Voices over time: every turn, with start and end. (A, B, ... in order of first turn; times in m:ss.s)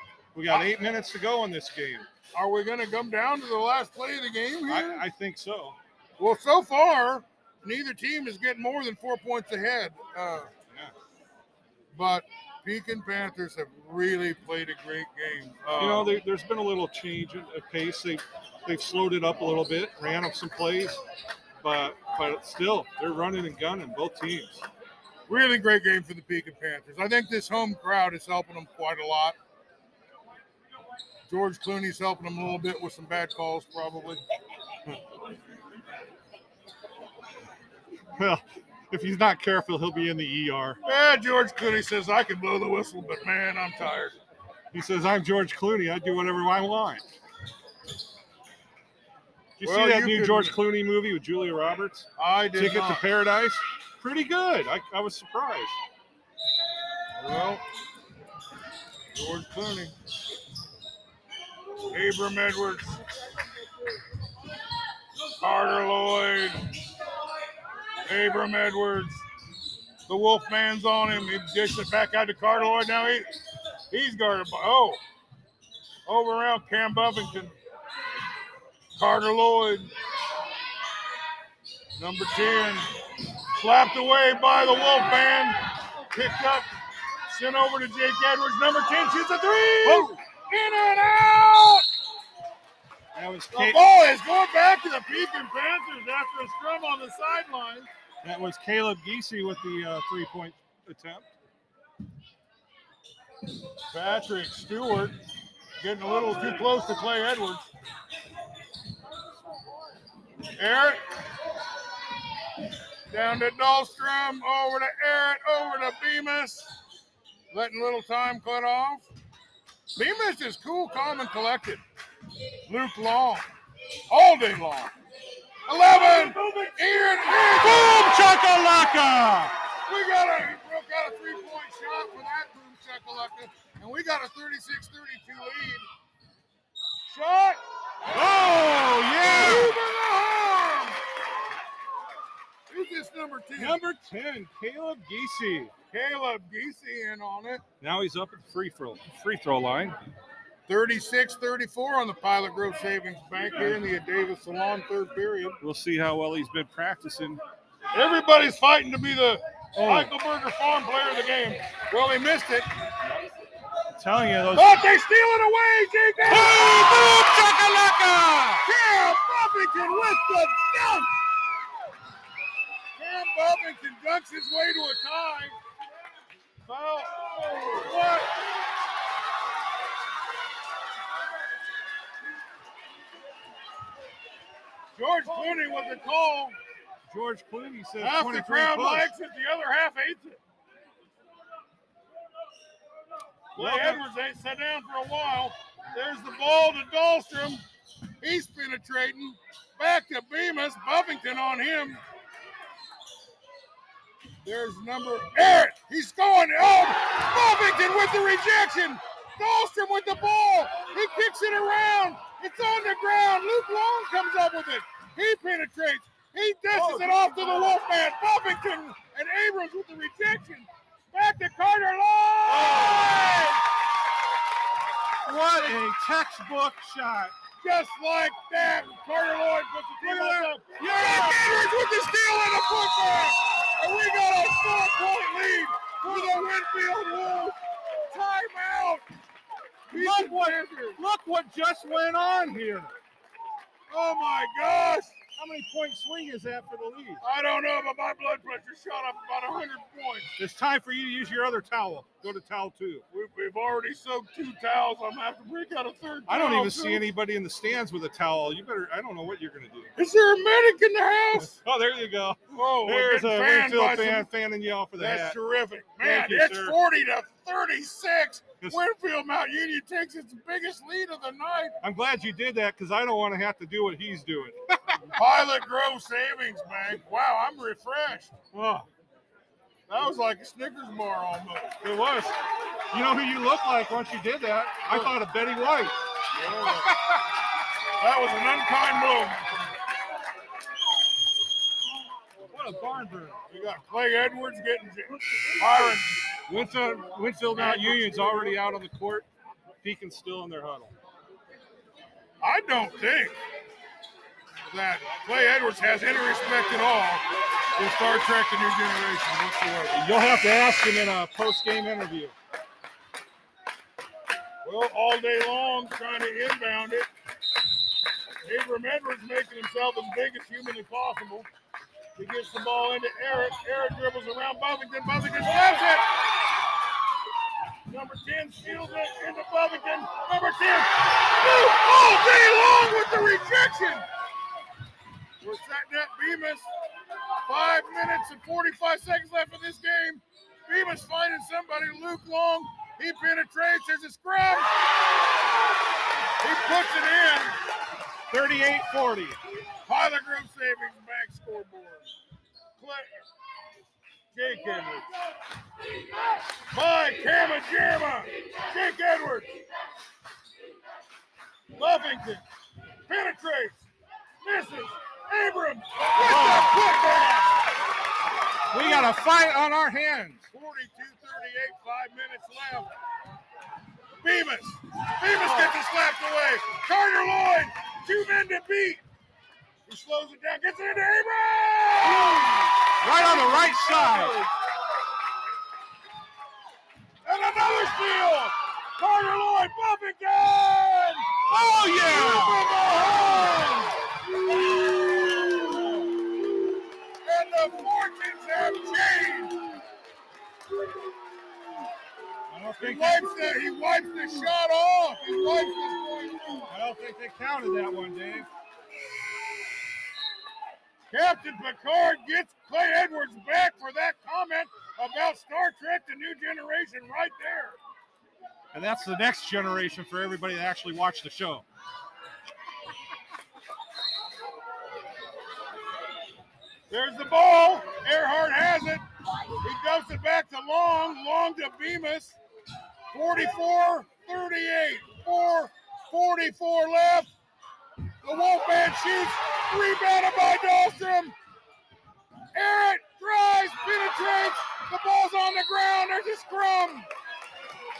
0:00.3-0:02.1 A
0:02.3-0:05.0 B
0:04.7-0:05.8 A
0:06.2-0:10.5 B
0:11.9-0:16.1 B
0:15.8-0:21.0 A
0:21.6-0:24.6 A
0:25.3-0:29.4 B
0:31.3-0:34.2 B
0:38.2-0:40.8 A
0:40.8-0:44.2 B
0:44.7-0:47.0 A
0:49.6-0:55.8 A
0:49.6-0:50.5 B
0:52.2-0:53.0 B
0:57.2-0:57.6 B
0:59.1-0:59.9 B
1:01.9-1:03.0 B
1:05.4-1:06.7 B
1:08.0-1:09.2 B
1:10.1-1:13.3 B
1:13.9-1:15.0 B
1:16.0-1:17.6 B
1:19.0-1:19.9 B
1:22.0-1:22.9 B
1:23.5-1:26.7 B
1:27.3-1:31.8 B
1:29.8-1:30.1 A
1:33.1-1:33.8 A
1:33.5-1:37.9 B
1:38.2-1:41.3 A
1:43.9-1:45.2 B
1:45.8-1:47.7 B
1:50.6-1:51.0 B
1:53.1-1:56.7 B
1:57.5-1:59.1 B
2:00.0-2:01.8 B
2:02.7-2:03.4 B
2:04.1-2:04.9 B
2:05.7-2:08.0 B
2:07.4-2:09.5 A
2:09.9-2:15.9 B
2:17.1-2:17.6 B
2:18.1-2:19.8 A
2:19.3-2:21.0 B
2:22.7-2:23.8 B
2:23.6-2:25.7 A
2:25.9-2:27.6 B
2:27.8-2:30.0 A
2:30.7-2:35.6 B
2:35.6-2:37.4 A
2:37.9-2:42.7 B
2:39.8-2:40.1 A
2:44.0-2:44.8 A
2:44.5-2:47.1 B
2:46.3-2:48.6 A
2:48.6-2:51.1 B
2:53.0-2:55.6 B
2:56.6-2:58.2 B
3:04.9-3:06.6 B
3:07.1-3:09.1 A
3:08.0-3:10.4 B
3:13.5-3:17.6 B
3:13.6-3:14.0 A
3:18.2-3:22.0 B
3:24.4-3:43.6 B
3:36.7-3:37.1 A
3:42.5-3:43.5 A
3:45.2-3:47.3 A
3:47.6-3:59.0 B
3:50.0-3:53.3 A
3:59.9-4:01.0 B
3:59.9-4:03.0 A
4:03.9-4:05.2 B
4:05.3-4:07.2 A
4:07.2-4:10.3 B
4:10.4-4:13.0 A
4:13.1-4:17.0 B
4:16.3-4:19.9 A
4:20.0-4:21.6 B
4:21.4-4:25.4 A
4:22.5-4:24.3 B
4:25.0-4:31.7 B
4:26.0-4:26.7 A
4:31.8-4:35.1 A
4:35.1-4:38.4 B
4:38.5-4:38.8 A
4:39.9-4:41.8 B
4:41.8-4:42.4 A
4:42.9-4:46.0 A
4:44.9-4:45.1 B
4:46.3-4:46.9 B
4:46.7-4:47.2 A
4:48.0-4:49.7 B
4:52.5-4:53.4 A
4:53.5-4:56.4 B
4:56.5-4:59.2 A
4:57.4-4:58.6 B
4:59.8-5:00.9 A
5:02.4-5:03.4 B
5:04.7-5:07.2 B
5:07.8-5:10.0 B
5:09.9-5:12.3 A
5:14.6-5:17.1 B
5:18.4-5:21.5 B
5:22.2-5:26.1 B
5:27.9-5:34.0 B
5:35.4-5:36.7 B
5:37.4-5:44.7 B
5:46.4-5:47.5 B
5:48.3-5:49.4 A
5:49.9-5:52.1 B
5:52.8-5:53.2 B
5:54.3-5:55.1 B
5:56.7-5:59.5 B
6:01.8-6:02.4 B
6:03.1-6:03.8 B
6:04.4-6:07.6 B
6:06.2-6:06.7 A
6:08.7-6:10.4 A
6:10.5-6:12.9 B
6:14.2-6:19.0 B
6:19.9-6:24.5 B
6:23.0-6:24.3 A
6:27.2-6:31.3 B
6:31.5-6:32.6 A
6:32.0-6:34.0 B
6:34.5-6:35.9 B
6:37.2-6:39.7 B
6:42.5-6:43.2 A
6:42.8-6:46.6 B
6:46.7-6:48.5 A
6:51.1-6:57.8 B
6:58.7-7:01.6 A
7:06.9-7:09.0 B
7:09.6-7:12.4 B
7:13.1-7:17.3 B
7:18.2-7:21.4 B
7:22.5-7:27.1 B